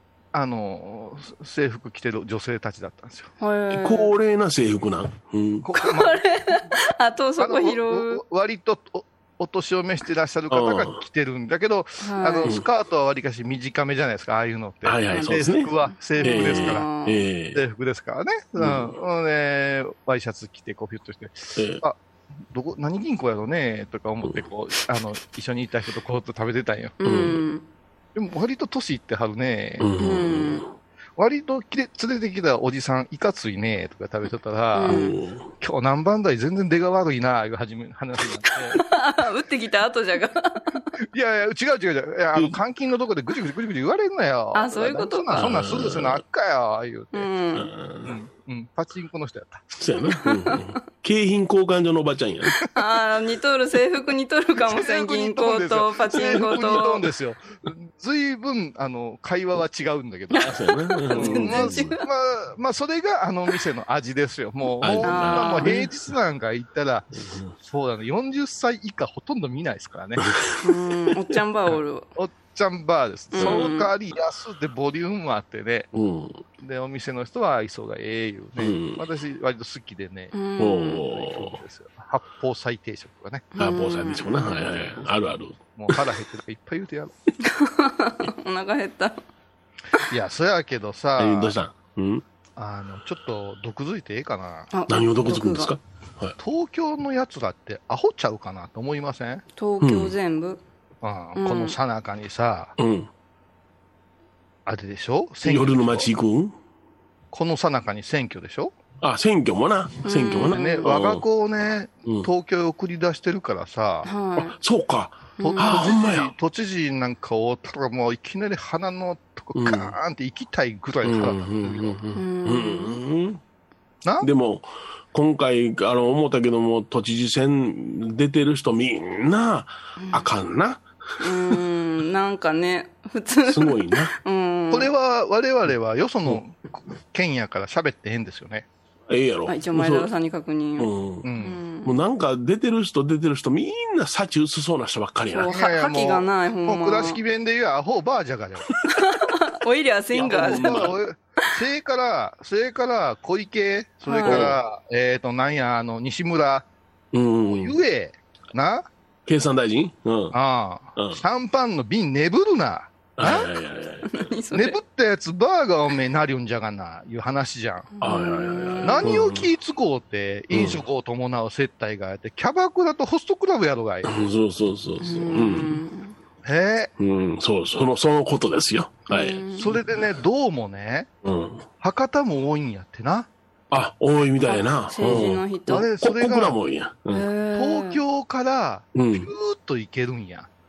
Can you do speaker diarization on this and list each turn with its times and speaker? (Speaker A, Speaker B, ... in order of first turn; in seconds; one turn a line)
Speaker A: 0.3-3.3
Speaker B: 3.4-4.1
Speaker C: 3.7-5.6
Speaker A: 5.6-6.7
Speaker B: 5.8-8.2
Speaker A: 7.4-16.9
Speaker C: 10.5-11.0
Speaker B: 12.0-12.5
Speaker C: 14.8-17.6
Speaker B: 15.1-17.2
Speaker A: 17.5-22.0
Speaker C: 18.6-18.9
Speaker C: 21.6-21.8
Speaker A: 22.5-27.0
Speaker B: 27.0-27.6
Speaker C: 27.0-27.4
Speaker A: 28.1-29.9
Speaker C: 29.8-30.7
Speaker B: 30.0-30.6
Speaker A: 31.2-35.0
Speaker B: 34.7-35.1
Speaker C: 34.9-35.5
Speaker A: 35.6-38.8
Speaker B: 38.7-40.8
Speaker A: 41.0-47.3
Speaker B: 44.5-45.5
Speaker C: 45.3-46.2
Speaker B: 47.1-47.7
Speaker C: 47.5-48.2
Speaker A: 48.0-49.8
Speaker C: 49.8-52.6
Speaker B: 50.0-50.6
Speaker B: 52.7-57.0
Speaker A: 54.6-60.5
Speaker B: 60.3-62.0
Speaker C: 60.4-61.9
Speaker A: 61.1-70.3
Speaker C: 64.8-65.8
Speaker B: 65.0-65.9
Speaker C: 67.2-67.5
Speaker C: 70.2-70.6
Speaker B: 70.6-72.1
Speaker A: 72.2-75.9
Speaker B: 73.3-73.9
Speaker C: 73.4-73.6
Speaker C: 75.9-76.4
Speaker A: 76.6-83.5
Speaker C: 78.6-79.0
Speaker B: 80.3-81.0
Speaker C: 80.6-81.6
Speaker B: 83.5-84.6
Speaker C: 83.6-86.0
Speaker A: 85.8-87.1
Speaker B: 87.4-89.2
Speaker A: 90.1-91.5
Speaker C: 91.2-92.2
Speaker A: 92.5-94.7
Speaker B: 94.7-95.7
Speaker C: 94.9-96.3
Speaker A: 96.4-99.4
Speaker B: 99.6-100.6
Speaker C: 99.8-100.1
Speaker A: 101.0-102.7
Speaker B: 101.3-101.8
Speaker C: 102.8-103.1
Speaker A: 104.7-106.1
Speaker C: 105.4-106.5
Speaker A: 107.3-108.7
Speaker C: 109.0-111.2
Speaker B: 110.0-110.8
Speaker A: 110.5-114.1
Speaker B: 114.0-114.5
Speaker C: 114.4-116.3
Speaker B: 115.4-115.8
Speaker A: 115.4-122.0
Speaker C: 119.5-119.9
Speaker C: 121.0-123.4
Speaker B: 122.1-123.0
Speaker A: 124.0-124.3
Speaker C: 124.2-130.8
Speaker B: 130.0-130.2
Speaker B: 131.2-134.9
Speaker C: 133.5-134.1
Speaker A: 134.7-138.7
Speaker C: 139.1-140.1
Speaker B: 139.5-141.9
Speaker C: 140.8-141.3
Speaker A: 141.2-141.6
Speaker C: 141.8-145.5
Speaker B: 145.3-147.2
Speaker A: 145.4-148.7
Speaker B: 148.9-150.8
Speaker C: 150.1-150.9
Speaker A: 150.2-156.7
Speaker B: 154.0-154.4
Speaker C: 154.2-154.6
Speaker C: 157.1-157.8
Speaker A: 157.5-158.9
Speaker C: 159.3-160.3
Speaker A: 160.3-163.5
Speaker C: 160.9-161.2
Speaker C: 163.2-164.3
Speaker B: 164.1-164.8
Speaker A: 164.5-167.9
Speaker B: 168.0-169.1
Speaker C: 168.0-169.5
Speaker A: 168.8-174.1
Speaker C: 170.5-170.8
Speaker C: 174.0-175.8
Speaker B: 175.0-176.1
Speaker A: 176.4-176.9
Speaker C: 177.0-179.4
Speaker B: 179.1-179.7
Speaker A: 179.6-181.1
Speaker C: 181.2-181.7
Speaker A: 181.8-183.3
Speaker C: 183.7-185.4
Speaker B: 184.4-185.9
Speaker A: 185.7-186.6
Speaker C: 186.0-187.3
Speaker B: 187.1-188.0
Speaker A: 187.5-190.5
Speaker C: 188.9-189.3